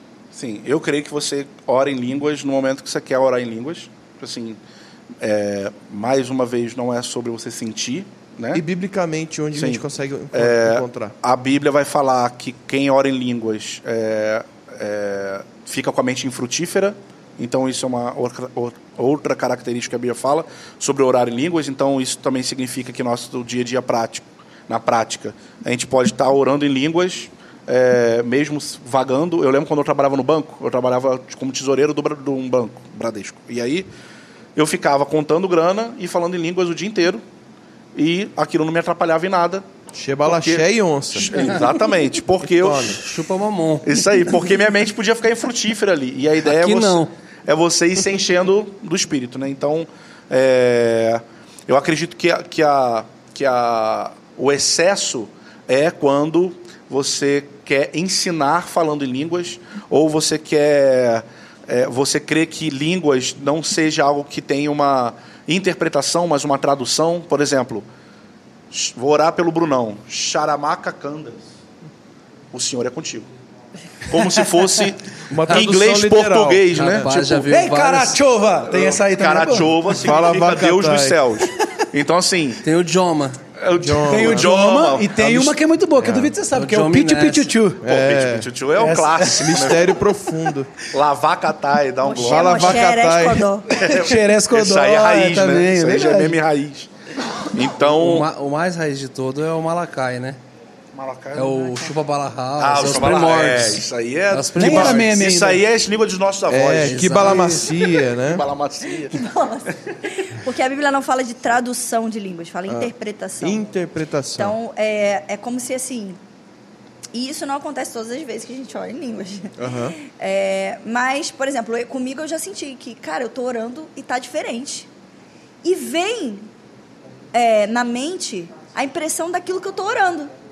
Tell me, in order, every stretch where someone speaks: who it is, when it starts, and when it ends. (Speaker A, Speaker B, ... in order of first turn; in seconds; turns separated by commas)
Speaker A: 0.3-4.6, Speaker A: 5.2-8.6, Speaker B: 8.5-11.2, Speaker A: 9.6-33.9, Speaker A: 34.6-37.2, Speaker A: 38.0-39.6, Speaker B: 39.9-41.7, Speaker A: 40.2-43.0, Speaker B: 42.4-43.0, Speaker C: 42.9-44.0, Speaker A: 43.8-67.9, Speaker C: 46.4-47.1, Speaker A: 68.7-71.5, Speaker A: 72.5-73.3, Speaker A: 74.0-77.4, Speaker B: 75.3-77.1, Speaker C: 76.7-78.2, Speaker D: 77.5-80.0, Speaker A: 78.7-82.6, Speaker B: 79.9-81.4, Speaker C: 82.6-83.4, Speaker A: 83.6-85.5, Speaker B: 83.8-84.6, Speaker D: 84.0-87.9, Speaker B: 86.0-86.4, Speaker C: 86.5-87.6, Speaker B: 87.8-88.5, Speaker A: 87.8-90.0, Speaker D: 88.8-89.5, Speaker B: 89.3-90.8, Speaker A: 90.9-92.9, Speaker E: 92.0-93.7, Speaker B: 92.2-93.5, Speaker A: 93.7-96.9, Speaker D: 93.8-96.4, Speaker A: 97.4-98.3, Speaker C: 97.8-100.4, Speaker A: 100.9-101.6, Speaker C: 101.3-105.1, Speaker A: 102.6-109.3, Speaker D: 104.6-105.6, Speaker B: 104.6-105.0, Speaker B: 106.5-108.5, Speaker C: 106.8-107.7, Speaker E: 109.0-113.6, Speaker B: 112.7-114.6, Speaker E: 114.4-116.2, Speaker E: 117.1-124.9, Speaker B: 119.6-120.0, Speaker E: 125.6-126.5, Speaker E: 127.3-130.3